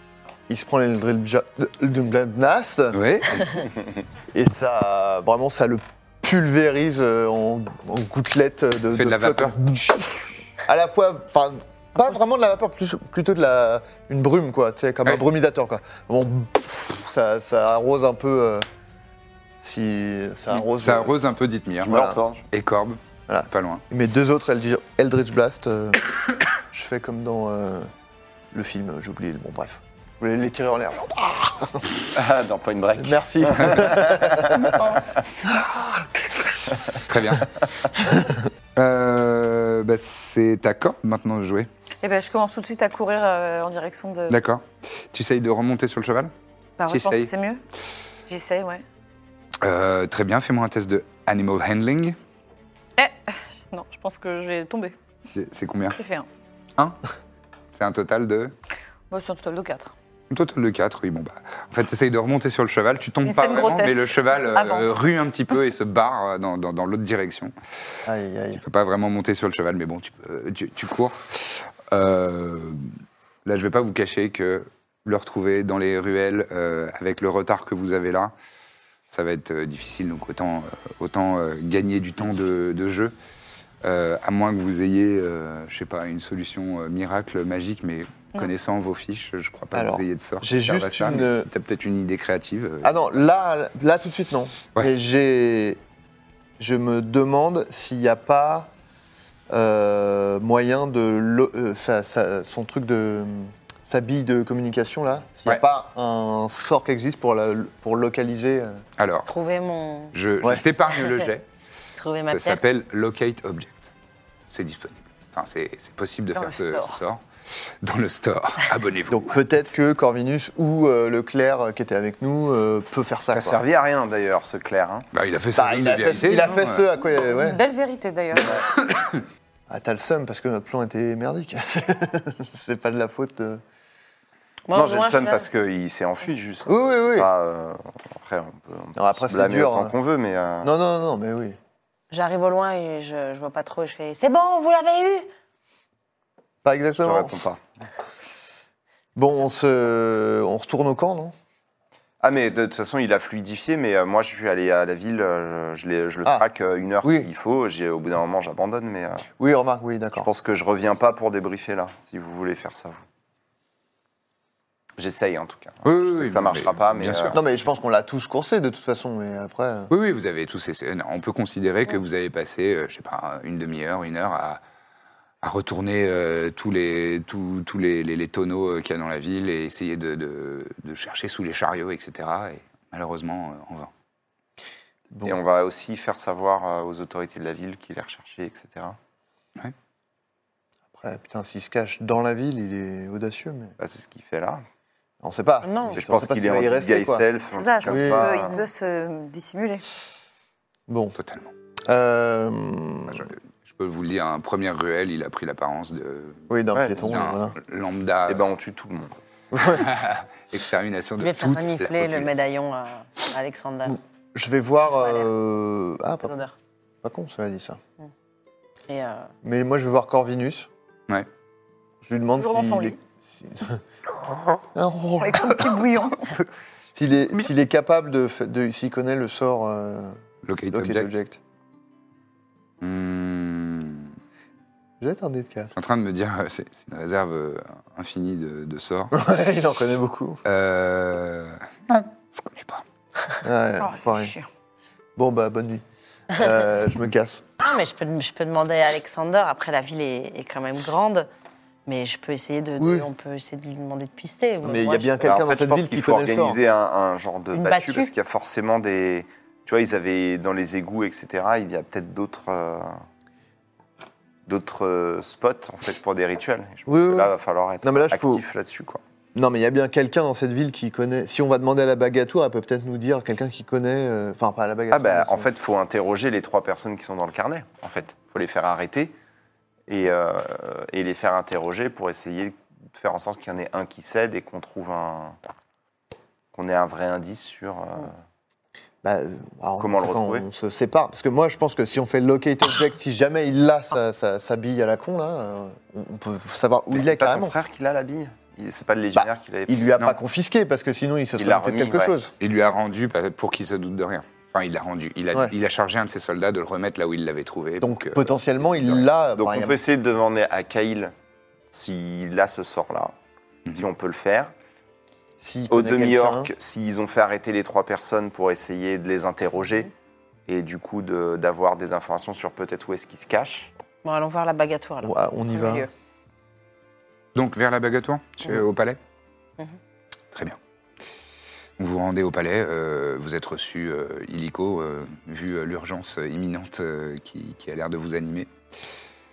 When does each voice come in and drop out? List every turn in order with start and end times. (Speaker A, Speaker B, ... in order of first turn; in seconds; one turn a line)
Speaker A: 0.5-3.0
Speaker B: 2.9-3.7
Speaker A: 4.3-18.6
Speaker B: 8.9-9.6
Speaker A: 19.6-21.1
Speaker B: 20.8-23.8
Speaker A: 21.8-22.2
Speaker C: 21.9-22.4
Speaker A: 23.3-26.1
Speaker A: 26.7-27.9
Speaker A: 28.5-31.9
Speaker C: 32.1-34.8
Speaker A: 33.0-34.7
Speaker D: 34.7-35.0
Speaker A: 35.5-36.1
Speaker B: 37.0-37.5
Speaker B: 38.8-41.7
Speaker D: 42.0-44.4
Speaker B: 44.3-46.3
Speaker D: 46.8-47.6
Speaker B: 46.9-47.3
Speaker D: 48.3-48.8
Speaker B: 49.6-52.2
Speaker D: 53.0-55.0
Speaker B: 55.3-56.0
Speaker D: 55.9-56.3
Speaker B: 57.7-58.5
Speaker D: 59.1-59.9
Speaker B: 60.3-67.5
Speaker D: 63.2-65.0
Speaker A: 68.0-68.6
Speaker B: 68.5-72.9
Speaker B: 73.4-78.3
Speaker B: 79.1-83.1
Speaker B: 83.8-93.0
Speaker A: 89.7-91.5
Speaker A: 92.8-95.8
Speaker A: 96.6-98.7
Speaker A: 99.5-108.8
Speaker B: 109.0-109.3
Speaker E: 109.2-110.1
Speaker B: 110.1-111.5
Speaker E: 112.0-112.6
Speaker B: 112.3-113.9
Speaker B: 114.5-117.2
Speaker D: 116.3-116.9
Speaker B: 117.8-119.3
Speaker A: 119.1-123.6
Speaker C: 123.3-125.1
Speaker B: 125.1-126.8
Speaker A: 125.5-127.6
Speaker F: 127.2-128.6
Speaker A: 129.7-133.6
Speaker E: 134.7-135.5
Speaker C: 134.7-140.7
Speaker A: 136.7-137.3
Speaker A: 138.9-139.9
Speaker A: 140.6-141.6
Speaker E: 142.1-145.3
Speaker A: 146.6-147.3
Speaker C: 147.0-147.6
Speaker A: 149.1-151.3
Speaker C: 152.2-159.3
Speaker A: 157.0-157.3
Speaker A: 159.4-160.3
Speaker C: 160.2-163.0
Speaker C: 165.0-167.4
Speaker B: 165.8-167.4
Speaker A: 167.3-169.9
Speaker B: 169.9-174.6
Speaker B: 175.4-183.9
Speaker A: 185.1-185.4
Speaker C: 185.2-189.0
Speaker A: 190.9-193.7
Speaker C: 193.8-194.6
Speaker A: 195.2-197.2
Speaker E: 195.6-196.0
Speaker C: 195.9-198.5
Speaker F: 197.5-199.7
Speaker D: 197.6-199.8
Speaker A: 197.8-198.3
Speaker A: 200.9-201.2
Speaker B: 201.1-201.5
Speaker A: 201.8-203.3
Speaker B: 203.1-208.4
Speaker A: 206.5-207.5
Speaker C: 206.7-207.1
Speaker C: 208.3-209.2
Speaker A: 209.5-209.8
Speaker B: 209.6-212.4
Speaker E: 211.2-214.0
Speaker A: 213.9-216.3
Speaker E: 214.8-215.3
Speaker E: 216.2-216.5
Speaker A: 217.0-217.8
Speaker E: 218.9-219.3
Speaker A: 219.4-220.7
Speaker A: 222.0-223.8
Speaker D: 222.4-223.0
Speaker B: 224.1-224.6
Speaker A: 224.7-225.6
Speaker D: 225.2-226.3
Speaker A: 226.9-231.4
Speaker B: 230.4-231.2
Speaker B: 232.8-234.1
Speaker A: 235.0-235.7
Speaker B: 235.8-239.1
Speaker A: 239.1-240.4
Speaker B: 240.4-242.8
Speaker A: 243.4-244.3
Speaker D: 243.8-244.5
Speaker A: 245.2-247.4
Speaker E: 247.6-251.3
Speaker E: 251.8-255.2
Speaker A: 252.8-253.1
Speaker A: 254.6-256.6
Speaker C: 255.2-263.0
Speaker E: 257.5-258.1
Speaker C: 264.4-269.0
Speaker A: 266.9-268.4
Speaker A: 269.3-275.5
Speaker C: 274.9-279.1
Speaker C: 279.9-285.4
Speaker C: 286.5-288.1
Speaker A: 289.0-297.5
Speaker C: 289.8-290.4
Speaker C: 296.9-300.1
Speaker A: 299.1-302.3
Speaker C: 301.4-302.1
Speaker B: 302.4-309.0
Speaker A: 307.8-309.8
Speaker C: 309.4-311.1
Speaker C: 311.7-313.1
Speaker C: 313.7-314.5
Speaker A: 315.4-316.5
Speaker C: 315.7-319.9
Speaker C: 320.5-323.7
Speaker E: 324.0-325.9
Speaker A: 325.0-325.9
Speaker B: 327.3-329.0
Speaker B: 330.3-330.6
Speaker B: 331.8-338.5